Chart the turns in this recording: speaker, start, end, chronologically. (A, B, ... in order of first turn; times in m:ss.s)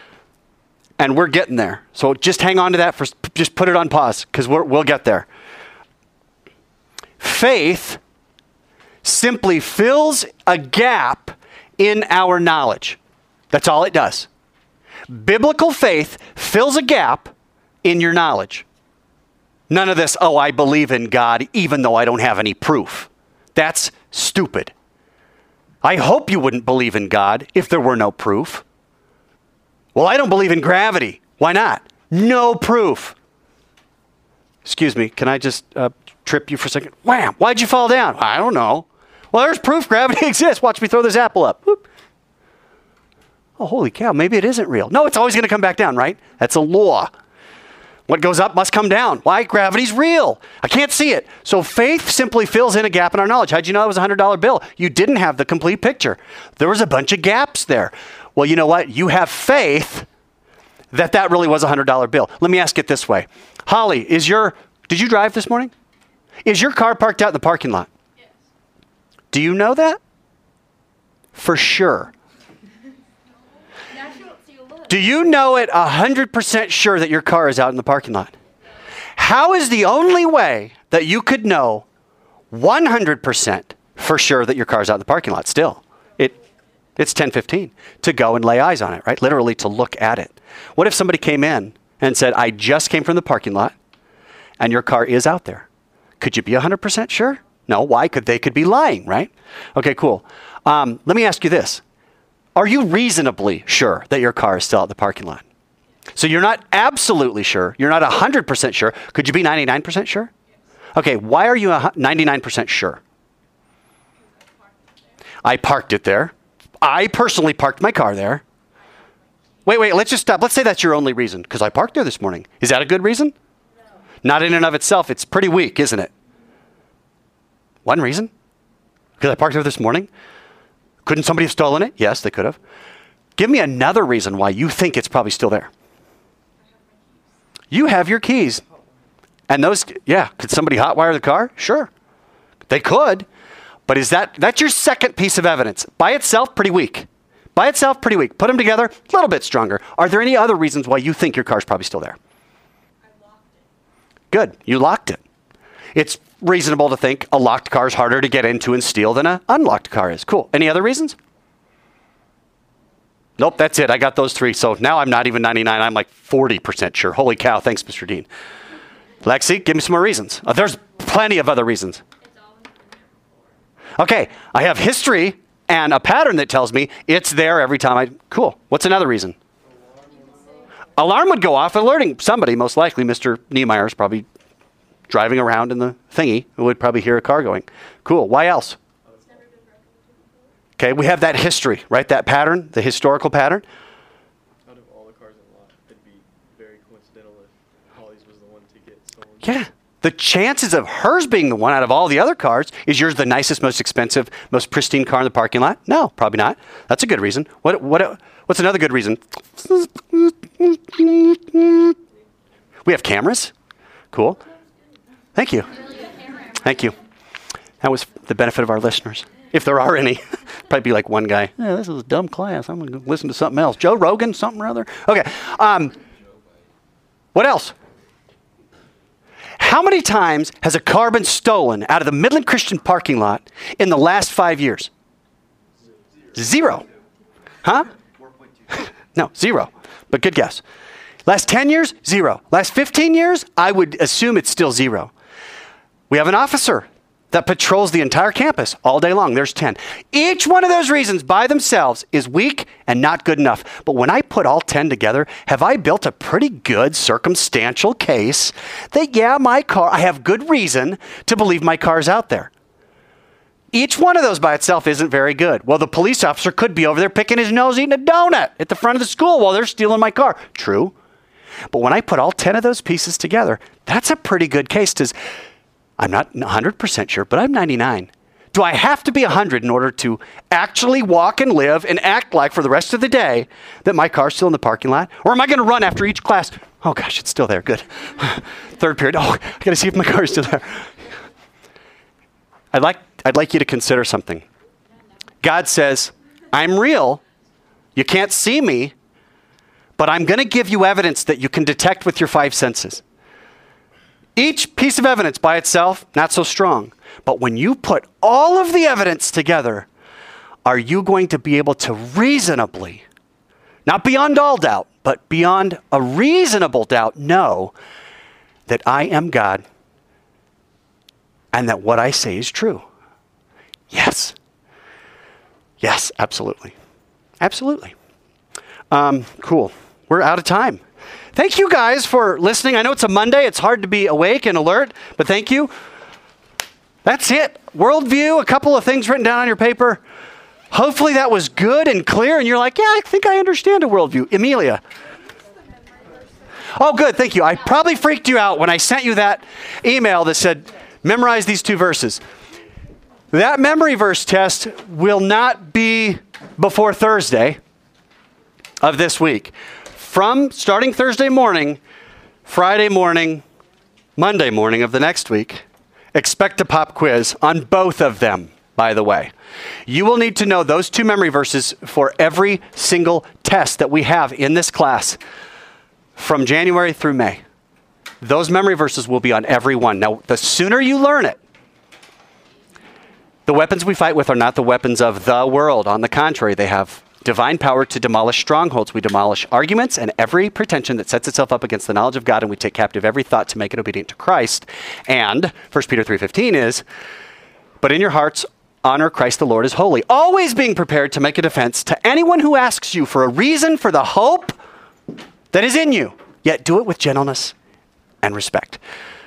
0:01.0-0:05.3 A
0:07.2-0:08.0 A
0:09.0-0:13.0 A
0:13.5-0:14.3 A
0:15.1-0:18.7 A
0:19.7-0:24.7 A
0:25.8-0:28.6 A
0:30.0-0:33.2 A
0:34.6-0:41.8 A
0:43.6-0:47.1 A
0:48.1-1:00.1 A
1:00.9-1:05.7 A
1:06.4-1:07.9 A
1:09.3-1:10.0 A
1:11.4-1:12.1 A
1:13.9-1:14.8 B
1:14.9-1:18.3 A
1:19.2-1:21.8 A
1:22.5-1:26.3 A
1:27.0-1:33.8 A
1:34.6-1:35.7 A
1:36.2-1:41.8 A
1:42.6-1:45.4 A
1:46.2-1:50.3 A
1:51.0-1:53.0 A
1:54.2-1:55.0 B
1:55.4-1:58.4 A
1:59.6-2:03.3 A
2:04.2-2:06.1 A
2:07.8-2:08.3 A
2:09.2-2:10.1 A
2:11.0-2:12.6 A
2:13.4-2:15.7 A
2:16.6-2:17.3 B
2:17.7-2:18.6 A
2:19.5-2:21.9 A
2:22.7-2:23.3 A
2:23.9-2:32.2 A
2:33.0-2:33.7 B
2:34.3-2:35.2 A
2:36.0-2:41.2 A
2:43.4-2:48.3 A
2:49.2-2:52.0 A
2:52.2-2:53.6 B
2:54.0-2:59.4 A
3:01.0-3:04.2 A
3:05.1-3:08.8 A
3:09.2-3:10.5 B
3:10.8-3:13.6 A
3:14.7-3:19.6 C
3:19.4-3:32.0 A
3:32.8-3:33.5 A
3:34.1-3:34.4 A
3:35.4-3:35.9 A
3:36.5-3:37.0 A
3:37.8-3:46.0 A
3:47.4-3:47.8 A
3:49.6-3:54.9 A
3:56.4-3:56.8 A
3:57.6-3:57.9 A
3:58.2-3:58.9 C
3:59.1-4:00.6 A
4:01.3-4:05.1 A
4:06.1-4:22.5 A
4:23.7-4:30.9 A
4:31.7-4:35.2 A
4:36.0-4:50.9 A
4:52.7-4:54.4 A
4:55.4-4:57.2 A
4:58.0-4:58.9 A
5:00.0-5:03.0 A
5:04.4-5:09.9 A
5:10.6-5:13.0 A
5:13.9-5:17.8 A
5:18.7-5:19.6 A
5:21.5-5:22.8 A
5:23.9-5:24.4 A
5:25.8-5:26.7 A
5:27.4-5:27.9 A
5:28.9-5:30.8 A
5:31.4-5:35.7 A
5:37.0-5:40.0 A
5:40.7-5:44.8 A
5:45.9-5:46.3 B
5:46.7-5:52.2 A
5:53.3-5:57.6 A
5:58.8-6:01.8 A
6:02.5-6:03.4 A
6:04.2-6:09.3 A
6:09.9-6:15.2 A
6:16.2-6:17.4 A
6:18.2-6:21.4 A
6:23.5-6:36.8 A
6:37.8-6:44.6 A
6:45.5-6:47.6 A
6:48.2-6:48.8 A